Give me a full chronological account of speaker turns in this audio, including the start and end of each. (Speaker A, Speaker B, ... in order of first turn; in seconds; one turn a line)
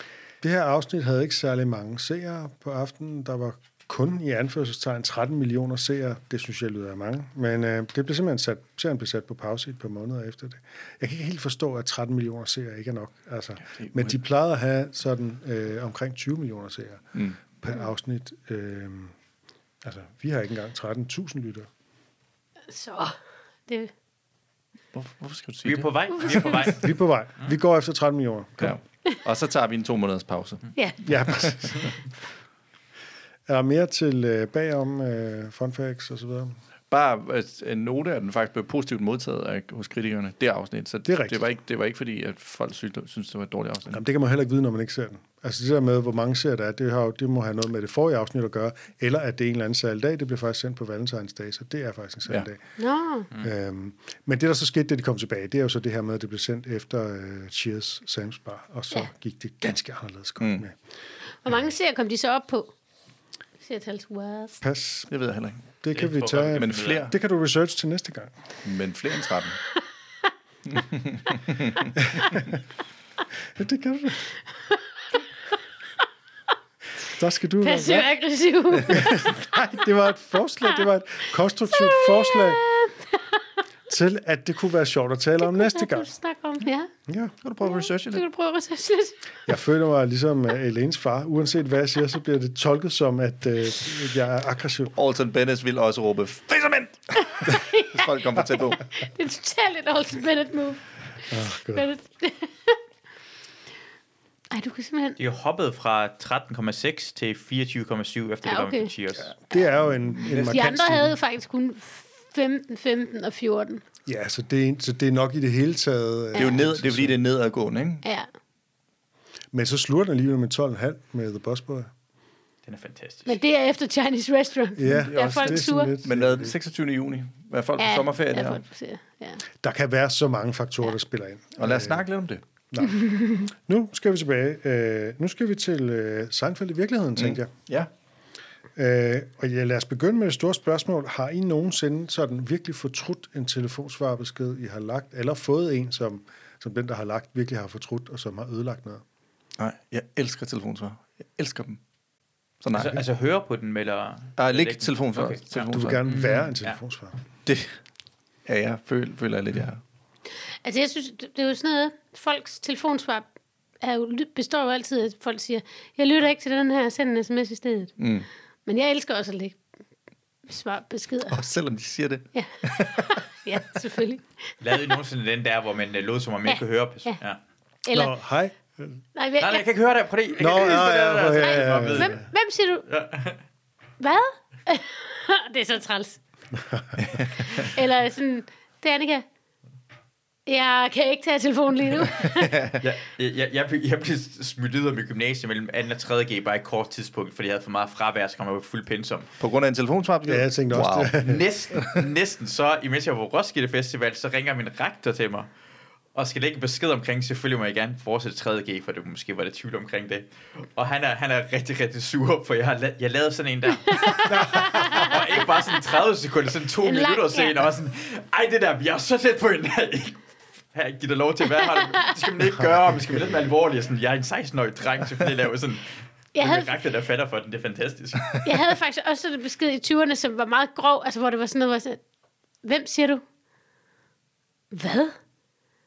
Speaker A: 0.4-19.1
Speaker B: 13.7-14.2
Speaker A: 19.8-21.7
Speaker C: 22.7-23.1
Speaker B: 24.9-26.7
Speaker D: 25.6-27.5
Speaker A: 26.6-28.8
Speaker B: 28.6-31.5
Speaker A: 31.1-31.9
Speaker A: 33.5-36.6
Speaker B: 36.9-44.0
Speaker A: 41.1-41.4
Speaker A: 43.9-52.6
Speaker C: 52.8-53.3
Speaker A: 53.4-60.8
Speaker C: 61.4-62.7
Speaker C: 63.6-64.6
Speaker A: 64.6-65.1
Speaker B: 65.1-65.6
Speaker A: 65.8-68.3
Speaker D: 65.9-67.1
Speaker B: 66.5-67.1
Speaker B: 68.6-69.6
Speaker B: 70.7-71.9
Speaker A: 72.0-72.5
Speaker A: 73.5-74.3
Speaker A: 77.1-78.1
Speaker C: 77.6-79.3
Speaker A: 78.9-82.6
Speaker C: 81.7-83.5
Speaker A: 83.9-86.1
Speaker C: 85.4-86.9
Speaker A: 87.1-87.3
Speaker B: 87.4-88.2
Speaker C: 87.6-89.4
Speaker A: 89.5-94.9
Speaker B: 95.0-98.8
Speaker C: 97.4-98.1
Speaker C: 99.0-100.8
Speaker A: 101.3-101.9
Speaker C: 101.7-102.8
Speaker C: 104.5-105.2
Speaker D: 105.2-109.3
Speaker C: 108.5-108.9
Speaker A: 109.2-111.1
Speaker B: 109.6-110.9
Speaker C: 110.5-113.8
Speaker A: 114.1-117.2
Speaker C: 116.3-116.6
Speaker B: 116.4-118.0
Speaker C: 118.0-118.3
Speaker A: 119.5-121.9
Speaker D: 122.7-123.4
Speaker C: 123.3-125.9
Speaker A: 124.8-126.6
Speaker B: 124.8-128.6
Speaker C: 127.8-129.4
Speaker A: 129.6-132.0
Speaker B: 131.6-132.4
Speaker A: 132.7-137.5
Speaker C: 132.9-133.5
Speaker B: 137.2-137.9
Speaker A: 138.8-149.0
Speaker B: 149.6-151.8
Speaker B: 152.6-153.0
Speaker D: 152.7-156.8
Speaker B: 154.4-156.0
Speaker A: 155.7-157.2
Speaker B: 157.5-157.8
Speaker B: 158.5-159.8
Speaker C: 160.6-163.3
Speaker C: 163.8-167.9
Speaker B: 168.0-168.3
Speaker C: 168.7-169.6
Speaker C: 170.5-171.5
Speaker B: 171.3-173.1
Speaker C: 172.3-174.5
Speaker D: 174.6-177.4
Speaker C: 176.5-177.2
Speaker C: 177.9-178.1
Speaker A: 177.9-179.0
Speaker C: 179.2-179.6
Speaker D: 179.4-182.2
Speaker A: 180.3-182.2
Speaker C: 181.4-182.8
Speaker D: 182.9-183.4
Speaker C: 184.0-186.2
Speaker B: 187.0-187.4
Speaker C: 187.5-189.2
Speaker C: 190.5-192.7
Speaker D: 192.8-199.3
Speaker B: 199.4-201.2
Speaker A: 200.2-202.0
Speaker D: 201.2-205.5
Speaker D: 206.1-228.4
Speaker C: 213.9-215.5
Speaker A: 214.3-214.7
Speaker C: 216.8-217.6
Speaker C: 221.6-221.9
Speaker A: 223.1-223.4
Speaker C: 226.3-226.7
Speaker C: 228.4-232.0
Speaker C: 232.6-233.2
Speaker C: 234.7-235.2